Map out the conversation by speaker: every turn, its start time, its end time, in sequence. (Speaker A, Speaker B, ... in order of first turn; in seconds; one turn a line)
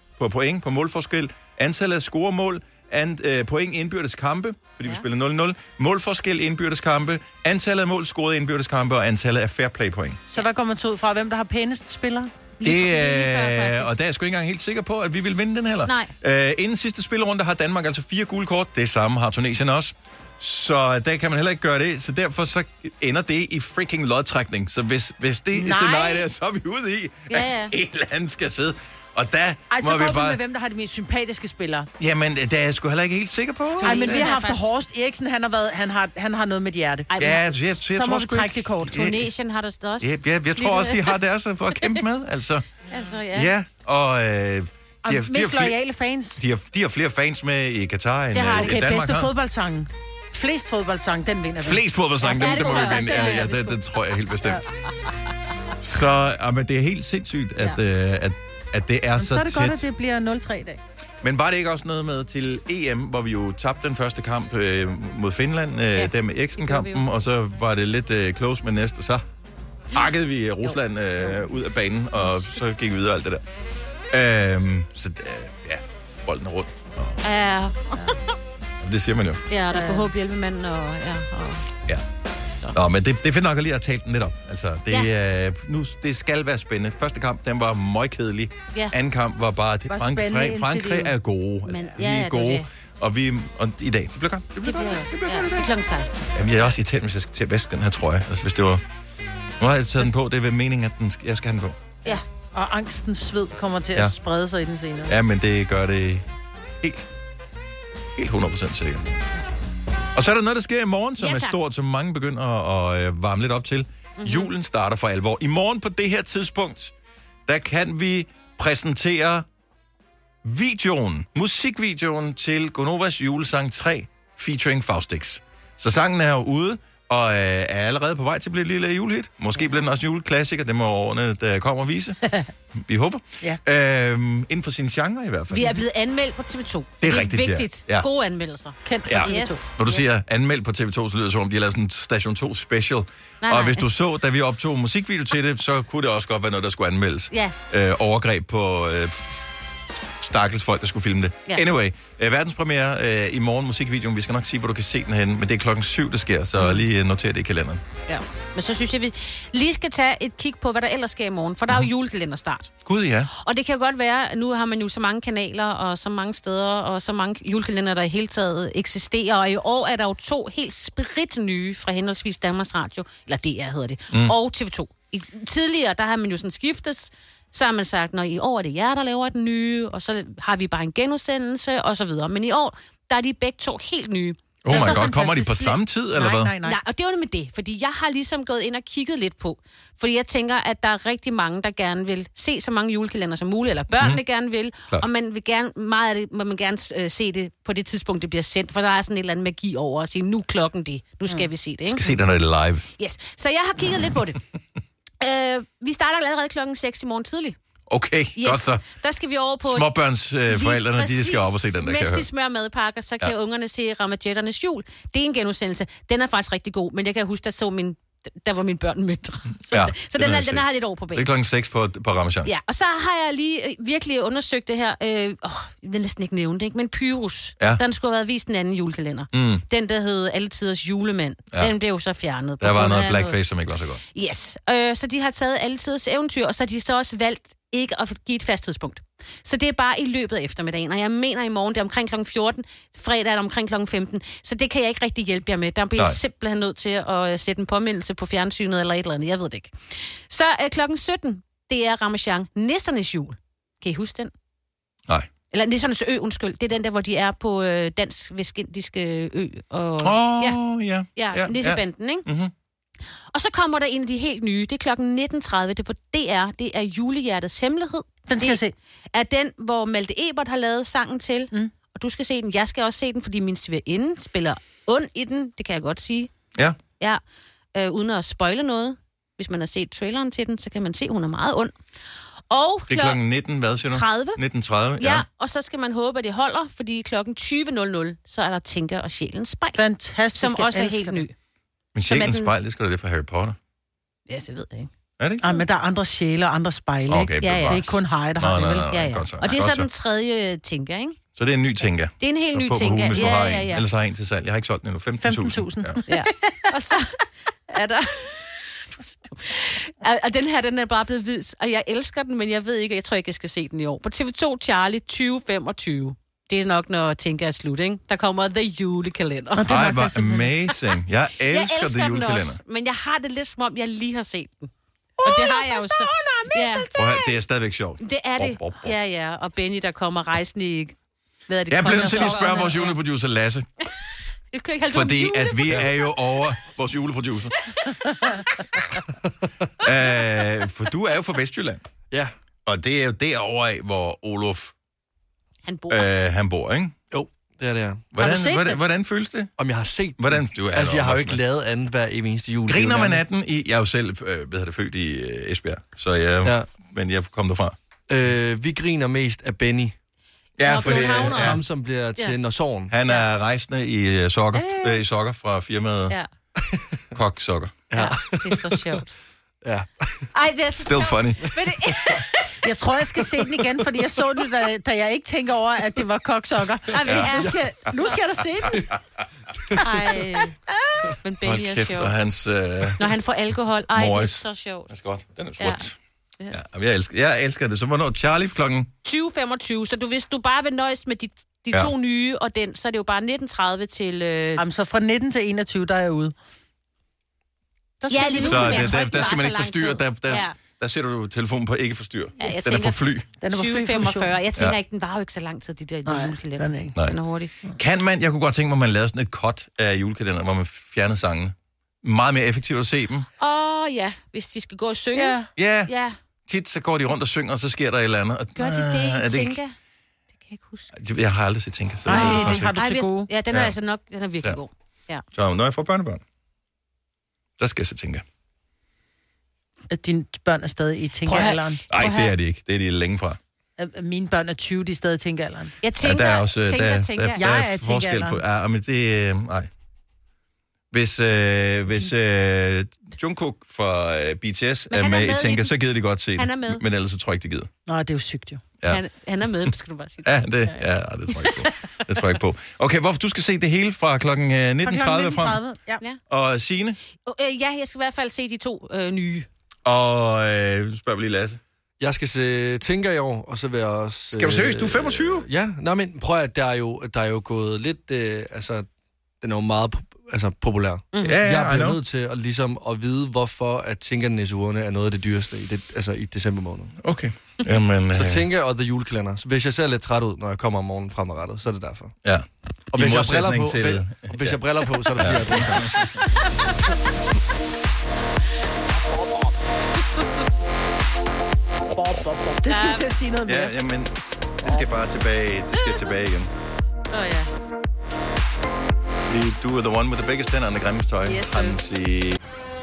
Speaker A: 0.2-10.2
Speaker B: 10.3-12.3
Speaker C: 12.6-13.9
Speaker A: 12.6-30.4
Speaker C: 15.8-16.1
Speaker B: 25.5-26.2
Speaker C: 27.3-27.7
Speaker B: 29.7-31.9
Speaker A: 32.0-34.3
Speaker C: 33.8-34.7
Speaker B: 33.8-37.1
Speaker C: 37.1-37.5
Speaker A: 37.2-39.3
Speaker B: 37.9-39.0
Speaker C: 38.9-41.2
Speaker A: 40.0-42.7
Speaker C: 42.9-43.5
Speaker A: 43.3-45.8
Speaker B: 45.0-46.4
Speaker A: 46.4-49.3
Speaker C: 48.3-49.0
Speaker B: 48.5-53.7
Speaker A: 51.6-54.6
Speaker C: 52.2-53.7
Speaker A: 55.8-59.9
Speaker B: 59.2-60.8
Speaker A: 61.2-69.2
Speaker C: 65.9-67.0
Speaker A: 69.9-73.4
Speaker A: 74.1-77.2
Speaker C: 77.2-78.2
Speaker A: 78.8-79.4
Speaker C: 79.5-81.7
Speaker B: 79.7-80.1
Speaker A: 82.7-95.7
Speaker B: 89.9-91.1
Speaker C: 91.7-92.7
Speaker C: 94.6-96.3
Speaker A: 96.3-98.8
Speaker A: 99.6-101.8
Speaker B: 102.1-105.1
Speaker A: 105.1-106.2
Speaker A: 106.8-107.1
Speaker A: 108.1-109.2
Speaker A: 110.1-116.9
Speaker C: 111.2-111.6
Speaker C: 114.2-114.5
Speaker A: 117.5-119.5
Speaker A: 120.4-132.2
Speaker A: 132.7-135.8
Speaker C: 135.5-140.0
Speaker A: 137.0-138.1
Speaker B: 138.8-139.7
Speaker A: 139.1-157.8
Speaker C: 143.4-143.8
Speaker C: 158.1-162.7
Speaker A: 162.8-163.3
Speaker C: 163.3-185.1
Speaker A: 184.6-186.5
Speaker B: 184.7-186.8
Speaker C: 186.6-202.1
Speaker A: 193.9-194.2
Speaker A: 201.9-202.8
Speaker C: 203.0-204.4
Speaker C: 205.2-207.6
Speaker A: 207.9-208.8
Speaker C: 208.3-209.9
Speaker A: 209.6-212.2
Speaker C: 210.5-221.3
Speaker A: 219.7-222.5
Speaker C: 222.4-233.4
Speaker A: 229.3-229.6
Speaker A: 232.6-234.0
Speaker C: 234.1-254.3
Speaker C: 255.5-260.6
Speaker A: 260.0-262.5
Speaker C: 261.1-262.2
Speaker C: 263.3-268.6
Speaker B: 268.3-268.7
Speaker C: 269.1-276.3
Speaker C: 277.7-281.7
Speaker C: 282.5-283.2
Speaker A: 282.9-285.2
Speaker C: 283.9-284.4
Speaker C: 285.0-289.8
Speaker B: 289.8-291.2
Speaker C: 290.3-291.3
Speaker A: 291.9-293.6
Speaker C: 292.1-292.5
Speaker C: 294.3-294.9
Speaker A: 295.2-295.5
Speaker B: 295.4-298.9
Speaker A: 297.1-299.9
Speaker C: 297.4-297.8
Speaker C: 298.9-301.2
Speaker A: 301.4-306.0
Speaker C: 302.2-303.8
Speaker B: 305.2-306.7
Speaker C: 306.1-319.8
Speaker B: 319.6-320.7
Speaker A: 319.7-322.6
Speaker C: 321.4-324.7
Speaker B: 325.2-327.3
Speaker C: 325.2-326.9
Speaker A: 326.9-328.9
Speaker C: 328.0-330.9
Speaker C: 331.5-332.9
Speaker A: 331.7-333.7
Speaker B: 331.9-332.7
Speaker C: 334.5-336.1
Speaker A: 334.9-337.5
Speaker C: 337.8-338.4
Speaker A: 339.8-341.8
Speaker A: 342.6-344.7
Speaker C: 345.6-346.1
Speaker A: 345.9-346.9
Speaker D: 347.1-348.1
Speaker A: 348.1-349.5
Speaker B: 348.2-348.8
Speaker D: 349.6-353.2
Speaker A: 350.2-351.4
Speaker A: 352.7-357.8
Speaker D: 358.1-359.9
Speaker A: 360.6-361.6
Speaker C: 360.6-361.6
Speaker D: 360.8-362.9
Speaker A: 362.9-366.2
Speaker A: 367.1-367.7
Speaker D: 367.9-369.0
Speaker C: 367.9-369.1
Speaker D: 369.6-370.3
Speaker C: 370.3-372.5
Speaker A: 370.7-371.5
Speaker B: 372.6-378.9
Speaker C: 376.9-377.9
Speaker C: 379.8-380.6
Speaker C: 381.2-382.1
Speaker A: 381.4-383.1
Speaker C: 383.0-384.9
Speaker A: 383.9-386.0
Speaker A: 386.5-388.9
Speaker C: 389.0-394.6
Speaker B: 394.6-396.3
Speaker B: 398.0-399.3
Speaker C: 398.1-400.5
Speaker A: 398.4-403.2
Speaker C: 402.4-407.5
Speaker B: 403.4-404.3
Speaker B: 406.1-406.9
Speaker A: 407.7-413.3
Speaker C: 413.4-416.1
Speaker B: 415.1-415.5
Speaker A: 415.6-415.9
Speaker A: 416.4-419.6
Speaker C: 418.6-419.7
Speaker C: 420.4-420.9
Speaker A: 420.9-422.8
Speaker B: 422.1-423.3
Speaker C: 422.1-425.2
Speaker A: 425.3-426.2
Speaker A: 427.6-428.2
Speaker B: 429.9-431.8
Speaker C: 431.2-432.3
Speaker A: 431.9-433.4
Speaker B: 433.8-435.7
Speaker C: 435.8-437.5
Speaker A: 436.0-439.7
Speaker B: 437.4-438.4
Speaker A: 440.9-447.7
Speaker C: 444.9-445.7
Speaker C: 446.4-446.8
Speaker B: 447.9-448.6
Speaker C: 448.9-450.4
Speaker A: 450.2-455.6
Speaker B: 454.8-456.0
Speaker A: 456.3-457.0
Speaker C: 457.2-459.5
Speaker A: 459.8-461.6
Speaker D: 462.0-468.9
Speaker A: 464.3-465.4
Speaker D: 469.4-477.0
Speaker A: 471.2-472.0
Speaker A: 477.0-478.4
Speaker D: 478.1-482.1
Speaker A: 482.2-484.6
Speaker D: 482.9-486.1
Speaker A: 485.2-486.1
Speaker B: 491.9-493.7
Speaker C: 492.7-493.1
Speaker A: 493.5-496.5
Speaker C: 497.1-497.5
Speaker A: 499.3-502.4
Speaker C: 501.2-502.0